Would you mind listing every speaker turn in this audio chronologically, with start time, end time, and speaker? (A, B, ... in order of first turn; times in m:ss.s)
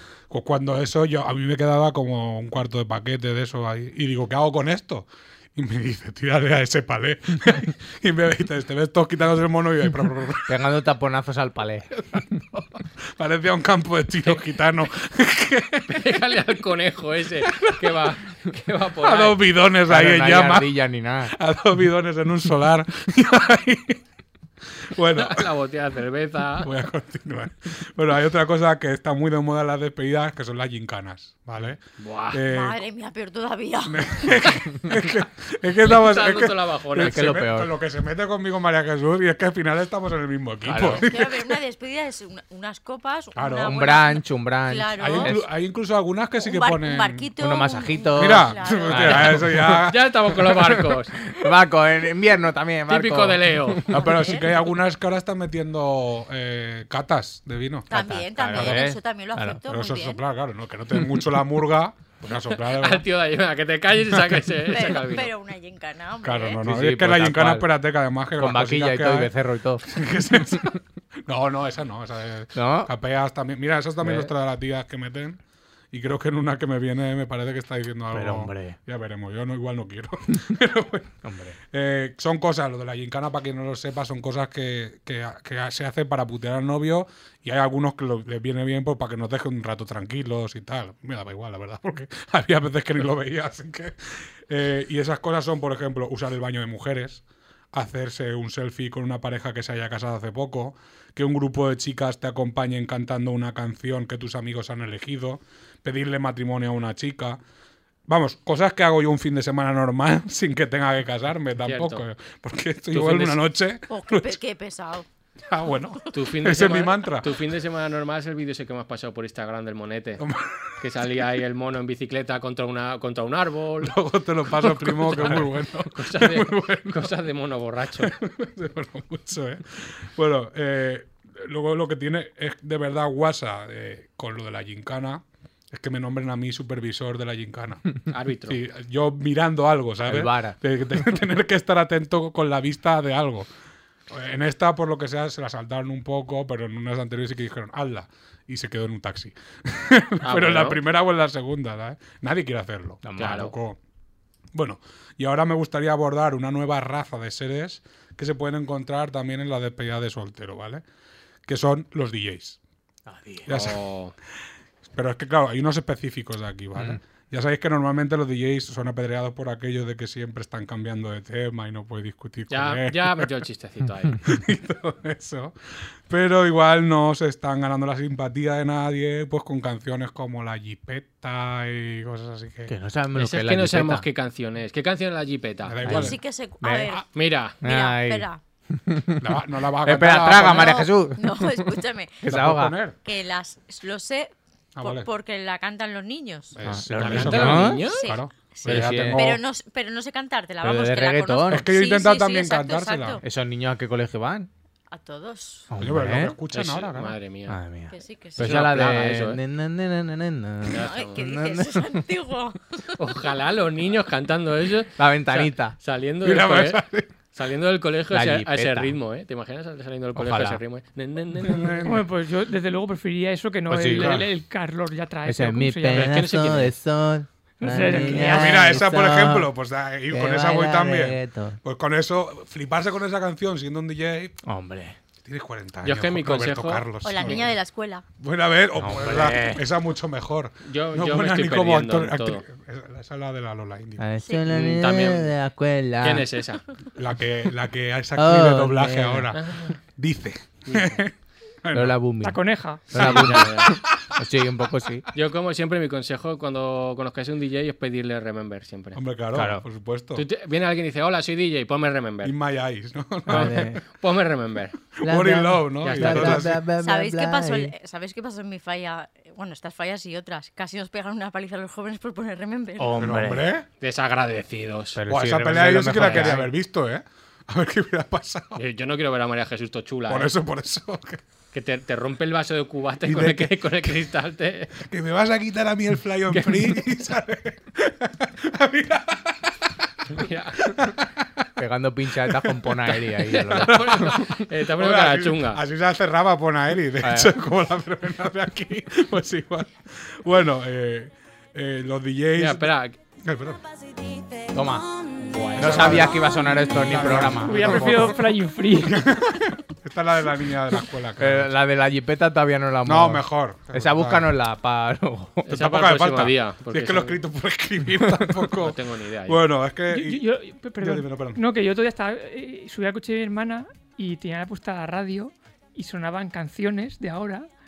0:00.3-0:10.6 A
0:10.5-0:11.9 B
0:11.9-0:16.2 A
0:15.9-0:19.4 C
0:17.4-0:17.9 A
0:19.0-0:24.0 A
0:19.9-0:21.3 B
0:24.8-0:25.5 A
0:25.2-0:26.7 C
0:26.6-0:32.8 A
0:32.0-0:32.4 C
0:32.5-0:34.3 D
0:33.9-0:41.6 A
0:35.8-0:37.2 C
0:37.0-0:37.7 B
0:40.6-0:41.0 B
0:40.9-0:45.4 D
0:43.4-0:43.9 A
0:43.6-0:45.4 B
0:45.0-0:47.3 A
0:46.4-0:49.4 D
0:47.4-0:49.8 B
0:48.1-0:50.7 A
0:49.7-0:51.2 C
0:51.3-0:53.5 B
0:52.9-0:53.9 C
0:53.9-0:57.9 A
0:53.9-0:54.6 D
0:57.9-1:00.2 D
0:57.9-0:59.6 B
0:58.5-0:58.8 A
0:59.7-1:03.0 A
1:02.3-1:05.3 C
1:04.1-1:04.6 A
1:04.7-1:06.6 D
1:06.2-1:15.4 A
1:06.6-1:07.7 B
1:08.4-1:09.8 B
1:12.6-1:12.9 B
1:14.0-1:14.3 B
1:15.9-1:21.1 A
1:18.1-1:18.8 B
1:21.2-1:21.6 B
1:21.7-1:47.4 A
1:48.1-1:54.4 A
1:51.6-1:52.0 C
1:52.9-1:53.4 C
1:53.9-1:55.1 D
1:55.5-1:57.4 A
1:56.1-2:00.2 C
2:00.2-2:00.7 A
2:00.8-2:04.0 C
2:03.8-2:07.1 A
2:04.5-2:08.1 C
2:08.0-2:23.5 A
2:18.1-2:18.6 C
2:20.1-2:20.6 B
2:24.1-2:33.8 A
2:30.2-2:30.8 C
2:33.0-2:33.5 B
2:33.2-2:33.5 C
2:34.5-2:40.8 A
2:41.5-2:42.6 A
2:43.1-2:43.5 B
2:43.5-2:43.8 A
2:43.5-2:44.1 C
2:44.9-2:53.3 A
2:52.5-2:54.2 C
2:54.3-3:02.7 A
3:02.7-3:04.0 B
3:03.2-3:06.0 C
3:05.6-3:06.2 A
3:05.9-3:06.9 B
3:05.9-3:07.1 D
3:07.2-3:07.6 C
3:07.6-3:09.2 B
3:07.6-3:08.4 D
3:09.2-3:10.9 A
3:09.8-3:11.7 B
3:10.4-3:12.2 D
3:12.2-3:12.8 B
3:12.3-3:13.0 A
3:13.0-3:16.6 D
3:14.8-3:15.1 A
3:16.5-3:19.4 A
3:16.6-3:17.8 B
3:17.0-3:18.1 C
3:17.8-3:23.2 D
3:18.7-3:19.3 B
3:20.6-3:21.6 B
3:21.5-3:23.2 A
3:23.2-3:24.5 B
3:24.9-3:25.7 D
3:25.7-3:26.4 B
3:25.8-3:27.2 A
3:26.5-3:27.6 C
3:27.5-3:32.0 B
3:27.9-3:28.7 D
3:28.4-3:29.4 C
3:30.7-3:32.6 D
3:30.7-3:31.2 C
3:33.0-3:41.8 C
3:35.0-3:35.8 B
3:36.2-3:37.1 A
3:38.1-3:39.0 B
3:40.2-3:40.6 B
3:41.4-3:42.0 A
3:41.8-3:46.2 E
3:43.7-3:44.2 B
3:44.0-3:44.3 A
3:45.3-3:49.5 B
3:45.9-3:46.7 C
3:47.6-3:48.7 E
3:48.2-3:54.4 A
3:50.1-3:51.6 B
3:54.4-3:55.0 B
3:55.2-3:57.5 A
3:55.8-3:57.5 C
3:57.0-3:58.0 D
3:58.2-4:04.0 A
3:58.8-3:59.6 B
4:00.6-4:02.4 C
4:04.0-4:06.2 B
4:04.5-4:05.3 C
4:06.0-4:06.6 C
4:07.0-4:11.1 A
4:08.2-4:09.3 B
4:09.3-4:09.8 C
4:10.7-4:11.0 C
4:11.6-4:12.0 A
4:11.7-4:15.0 B
4:12.2-4:12.8 E
4:12.9-4:13.8 C
4:13.0-4:14.0 A
4:15.1-4:19.0 C
4:18.9-4:20.2 A
4:19.3-4:19.6 B
4:20.2-4:22.4 C
4:22.2-4:23.6 A
4:23.3-4:23.8 B
4:23.3-4:24.8 C
4:25.0-4:26.6 A
4:25.0-4:27.7 B
4:25.8-4:26.4 C
4:26.8-4:33.0 D
4:32.8-4:33.4 B
4:33.0-4:33.7 A
4:33.8-4:35.0 C
4:35.0-4:36.5 B
4:35.1-4:38.6 A
4:36.0-4:36.3 C
4:38.6-4:40.3 C
4:40.1-4:41.2 A
4:41.5-4:44.8 C
4:43.0-4:44.0 A
4:44.8-4:51.5 A
4:46.3-4:46.8 C
4:50.1-4:50.7 C
4:51.6-4:54.1 B
4:52.3-5:03.6 A
4:53.4-4:55.6 C
4:57.0-4:57.3 B
5:02.4-5:03.0 C
5:04.5-5:04.9 B
5:05.2-5:06.1 C
5:05.6-5:08.2 B
5:05.6-5:11.5 A
5:07.4-5:09.1 E
5:11.2-5:15.5 B
5:12.8-5:14.3 A
5:15.5-5:21.4 A
5:15.5-5:17.2 C
5:18.6-5:19.4 C
5:19.9-5:27.5 E